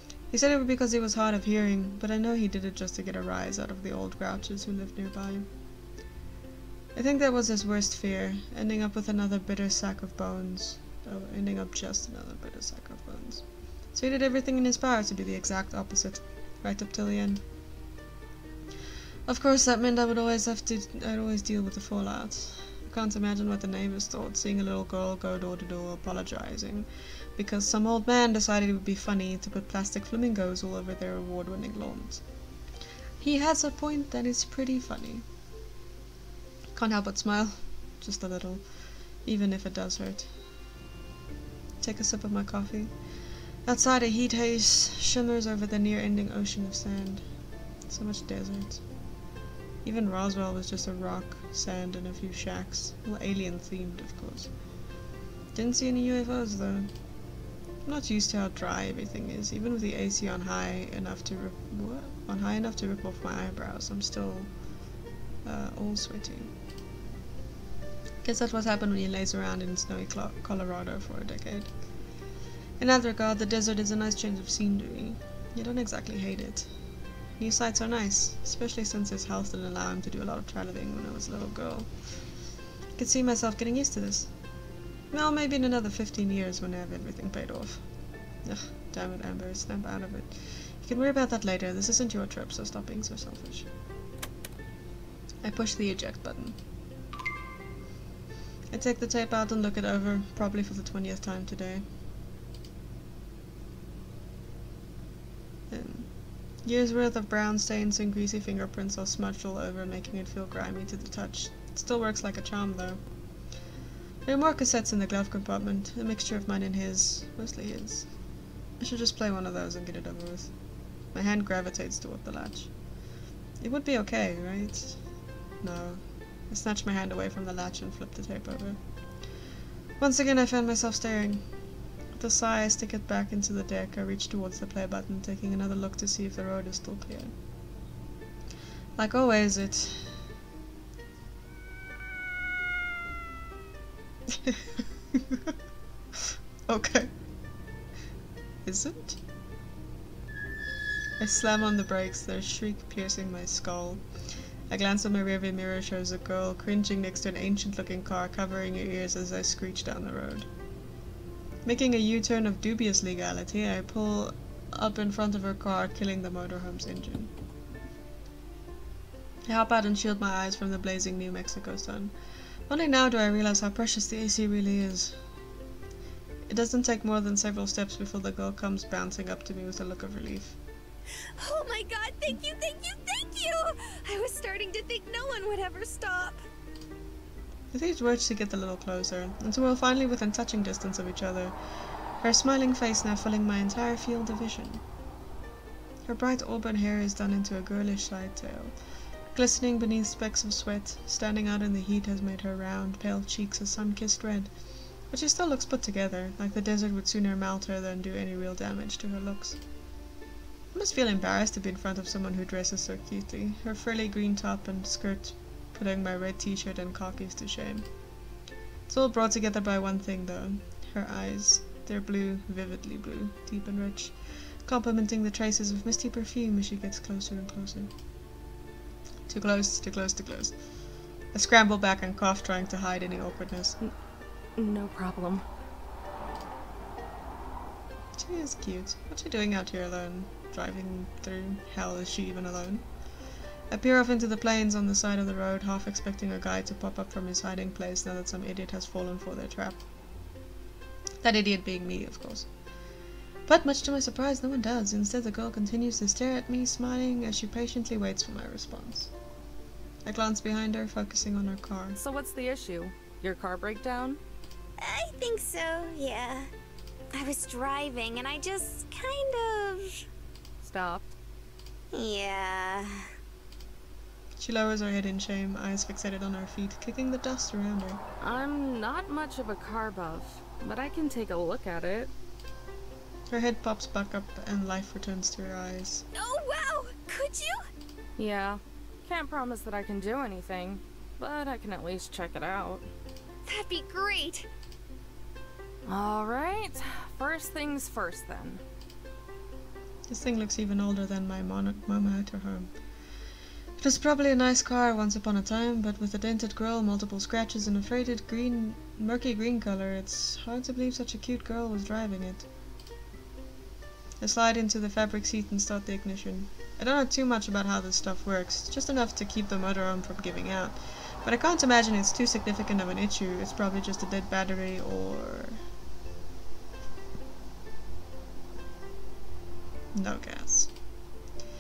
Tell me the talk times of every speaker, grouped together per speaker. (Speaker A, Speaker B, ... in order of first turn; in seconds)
Speaker A: 0.3-5.5, 6.9-17.4, 19.3-32.2, 33.2-35.2, 36.7-38.6, 39.2-40.3, 41.8-42.9, 43.6-47.2, 47.9-48.8, 49.8-54.5, 55.5-56.9, 57.8-64.5, 65.4-66.5, 68.2-71.7, 72.8-76.7, 77.4-81.9, 83.0-84.3, 85.1-87.8, 88.4-93.7, 95.4-96.6, 98.7-101.8, 105.7-106.1, 106.6-113.0, 114.2-118.1, 118.8-120.5, 121.1-122.7, 123.6-125.0, 125.6-128.8, 130.0-131.4, 132.1-137.3, 139.0-140.2, 144.3-145.5, 146.7-147.1, 148.6-149.2, 151.2-154.0, 154.7-160.5, 161.6-167.3, 169.4-172.1, 172.7-175.2, 176.5-180.6, 187.7-191.5, 192.2-194.8, 196.0-198.7, 199.3-204.5, 205.1-209.6, 210.7-217.9, 218.9-227.9, 229.3-230.6, 231.3-233.8, 238.1-242.8, 243.7-249.8, 251.2-252.5, 253.4-259.1, 260.0-262.0, 274.4-278.0, 283.3-286.0, 300.1-302.7, 303.8-312.5, 314.2-325.6, 329.9-330.7
Speaker B: 181.4-186.4, 264.8-266.5, 267.1-270.1, 271.9-273.1, 286.1-287.6, 293.5-294.5
Speaker C: 234.6-235.4, 262.0-264.2, 270.6-271.1, 278.2-282.1, 288.2-292.9, 295.9-298.6